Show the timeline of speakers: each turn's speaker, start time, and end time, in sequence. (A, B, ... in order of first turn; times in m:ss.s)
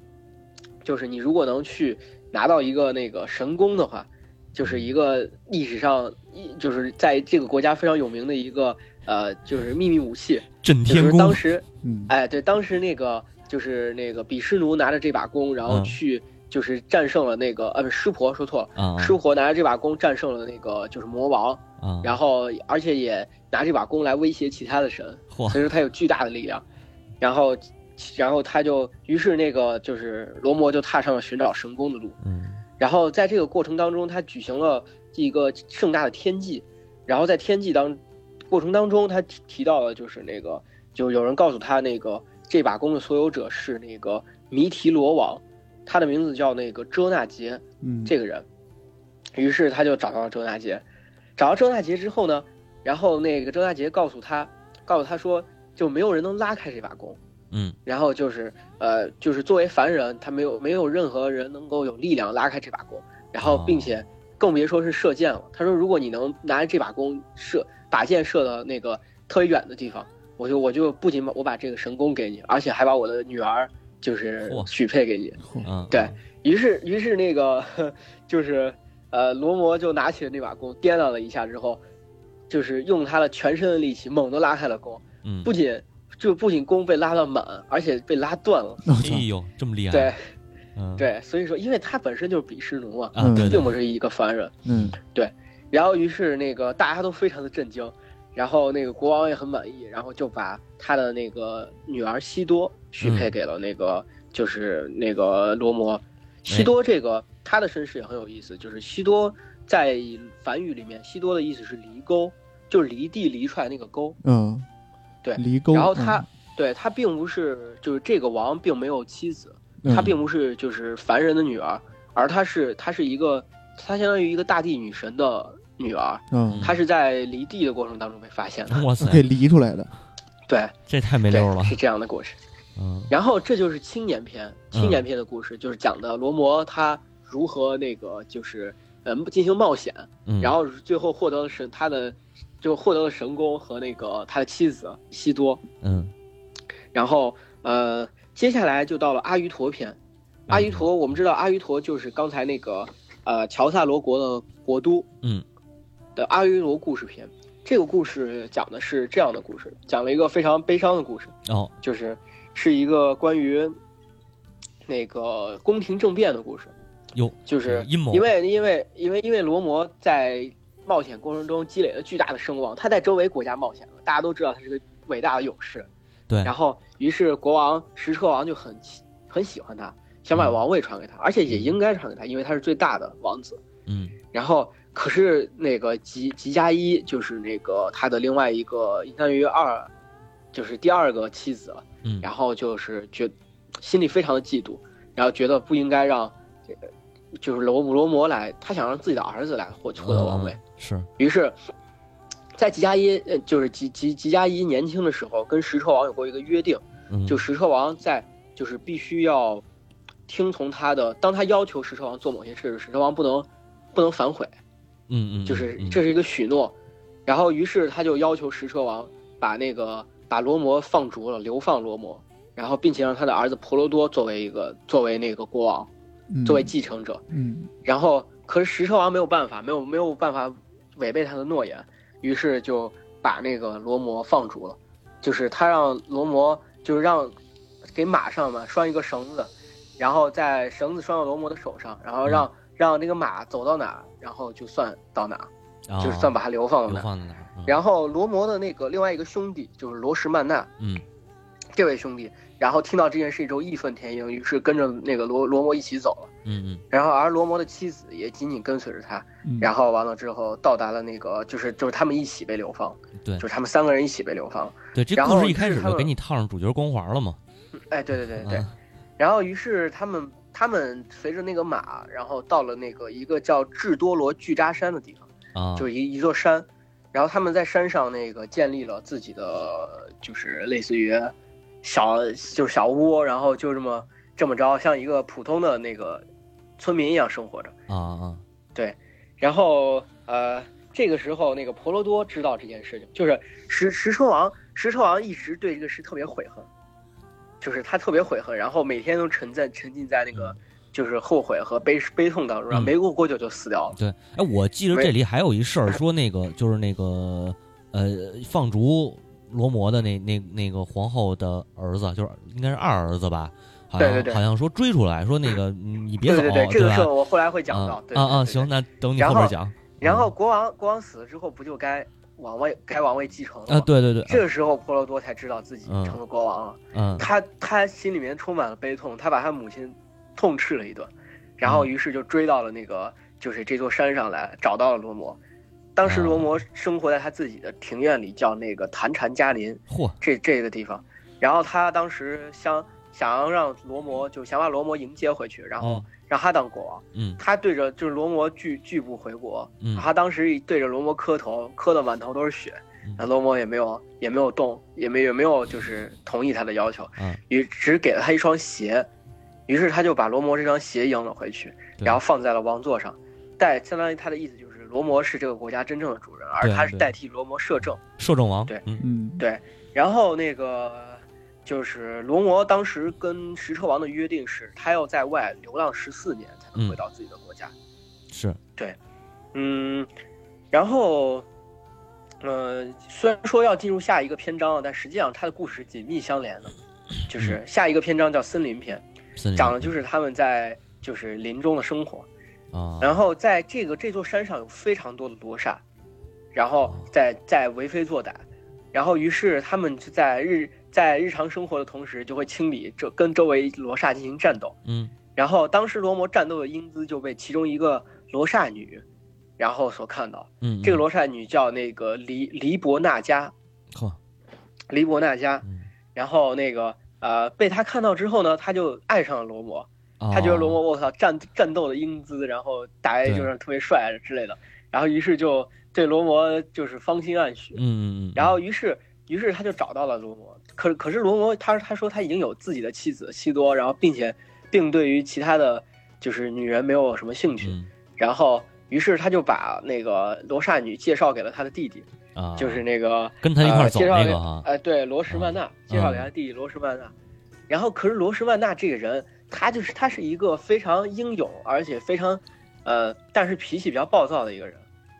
0:00.8-0:26.6 A
0:04.6-0:04.9 B
0:10.6-0:11.4 B
0:11.8-0:12.1 C
0:15.7-0:16.0 B
0:18.8-0:19.2 B
0:21.8-0:22.2 B
0:25.3-0:25.6 B
0:27.2-0:32.2 A
0:32.2-0:32.6 B
0:32.8-0:38.0 A
0:38.5-0:48.5 A
0:47.8-0:48.1 C
0:49.4-0:50.8 A
0:51.4-0:57.2 A
0:57.5-0:57.8 B
0:57.8-1:21.8 A
1:03.4-1:03.9 B
1:15.6-1:16.1 B
1:22.5-1:28.8 A
1:25.2-1:25.5 B
1:28.8-1:29.3 C
1:29.0-1:30.1 B
1:29.9-1:30.2 A
1:30.8-1:31.1 B
1:31.0-1:34.5 A
1:33.1-1:33.7 B
1:33.2-1:33.6 C
1:34.6-1:35.0 C
1:35.1-1:54.2 A
1:43.0-1:43.3 B
1:54.2-1:54.7 C
1:55.2-2:08.8 A
1:55.4-1:56.3 C
1:59.8-2:00.1 C
1:59.9-2:00.2 B
2:06.3-2:06.6 C
2:06.5-2:06.8 B
2:08.7-2:09.2 B
2:09.0-2:09.9 C
2:10.5-2:10.7 A
2:10.9-2:11.8 B
2:11.3-2:12.4 A
2:12.8-2:13.1 B
2:13.1-2:25.6 A
2:14.7-2:15.0 B
2:20.3-2:20.5 B
2:25.8-2:26.1 B
2:26.9-2:30.0 A
2:30.5-2:30.9 B
2:30.5-2:35.1 A
2:36.2-2:43.7 A
2:41.5-2:41.7 B
2:44.9-2:46.7 A
2:47.2-2:48.3 B
2:47.5-2:55.9 A
2:56.4-3:03.6 A
3:01.5-3:01.8 B
3:03.9-3:04.2 B
3:04.3-3:09.9 A
3:10.5-3:16.3 A
3:17.4-3:20.6 A
3:20.0-3:21.1 B
3:21.2-3:21.6 A
3:22.6-3:29.6 A
3:27.1-3:27.4 B
3:30.3-3:34.5 A
3:35.1-3:36.0 B
3:35.5-3:36.8 A
3:37.3-3:45.9 A
3:46.3-3:46.7 C
3:46.4-3:47.2 A
3:47.3-3:47.7 C
3:47.8-3:57.4 A
3:58.0-4:05.5 A
4:05.9-4:06.4 B
4:06.0-4:07.1 A
4:06.9-4:07.8 B
4:07.7-4:10.7 A
4:10.8-4:11.0 B
4:11.8-4:16.3 A
4:16.5-4:16.8 B
4:16.9-4:26.1 A
4:19.4-4:19.7 C
4:25.0-4:27.4 B
4:27.9-4:28.7 A
4:28.4-4:28.7 B
4:29.2-4:46.3 A
4:35.6-4:35.9 B
4:46.8-4:47.7 A
4:47.9-4:48.4 B
4:48.8-4:56.7 A
4:57.6-5:04.0 A
5:04.0-5:17.1 B
5:14.0-5:14.4 A
5:16.2-5:35.4 A
5:17.7-5:20.3 B
5:23.7-5:24.4 B
5:25.9-5:26.2 B
5:26.9-5:27.3 B
5:36.0-5:59.1 A
5:36.0-5:36.5 B
5:39.9-5:40.2 B
5:45.8-5:46.1 B
5:47.2-5:47.4 B
5:59.7-6:08.0 A
6:06.6-6:07.1 B
6:08.2-6:09.0 B
6:09.0-6:09.4 C
6:09.4-6:17.7 A
6:18.3-6:18.6 B
6:19.5-6:20.1 A
6:20.7-6:21.5 A
6:22.4-6:26.7 A
6:27.3-6:29.0 A
6:29.4-6:29.9 B
6:29.6-6:32.3 A
6:32.7-6:33.2 B
6:33.0-6:35.8 A
6:36.5-6:44.8 A
6:44.9-6:45.1 B
6:45.4-6:49.0 A
6:49.6-6:53.5 A
6:50.6-6:51.0 B
6:54.9-7:07.8 A
7:00.2-7:00.8 B
7:03.2-7:03.5 B
7:07.8-7:08.6 B
7:08.4-7:27.1 A
7:17.6-7:17.9 B
7:22.4-7:22.8 B
7:23.4-7:24.7 B
7:25.3-7:26.3 B
7:27.7-7:34.8 A